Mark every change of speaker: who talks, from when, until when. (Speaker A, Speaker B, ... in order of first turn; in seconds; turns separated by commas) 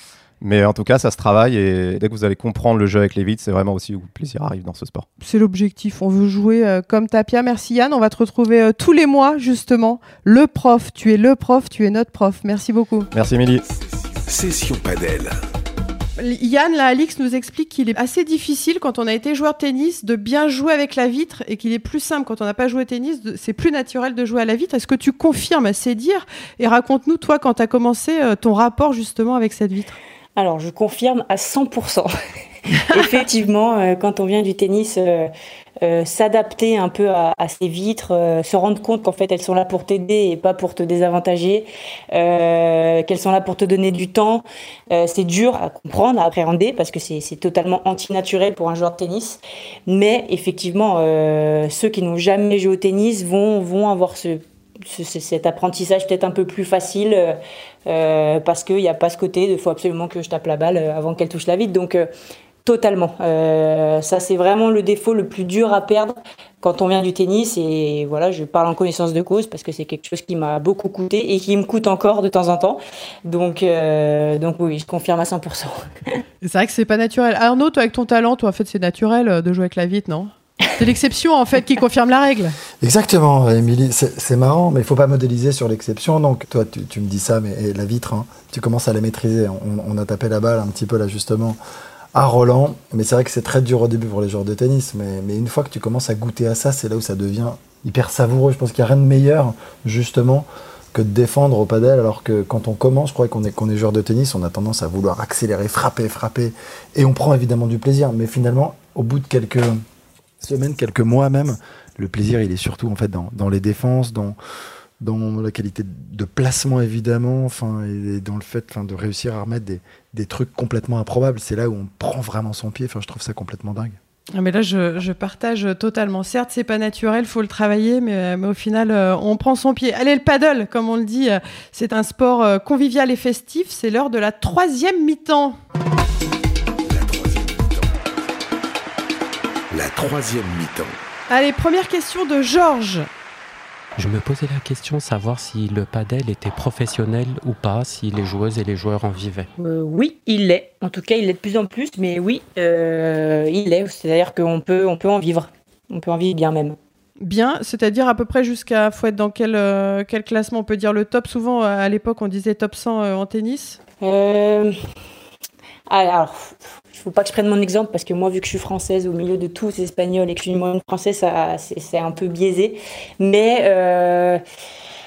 Speaker A: 0.4-5.1, Speaker B: 5.2-13.1, Speaker A: 13.1-13.6, Speaker C: 14.2-15.4, Speaker B: 16.2-30.0, Speaker D: 30.4-32.1, Speaker D: 32.8-35.3, Speaker D: 35.8-62.1, Speaker D: 62.6-76.2, Speaker B: 76.4-82.6, Speaker E: 82.8-91.6, Speaker E: 92.1-109.8, Speaker E: 110.4-114.4, Speaker E: 115.0-124.0, Speaker B: 124.3-135.6, Speaker C: 136.9-137.9, Speaker C: 139.7-141.0, Speaker B: 141.3-143.1, Speaker F: 144.0-149.5, Speaker D: 149.6-156.8, Speaker B: 157.2-163.8, Speaker D: 164.0-164.8, Speaker D: 165.9-174.4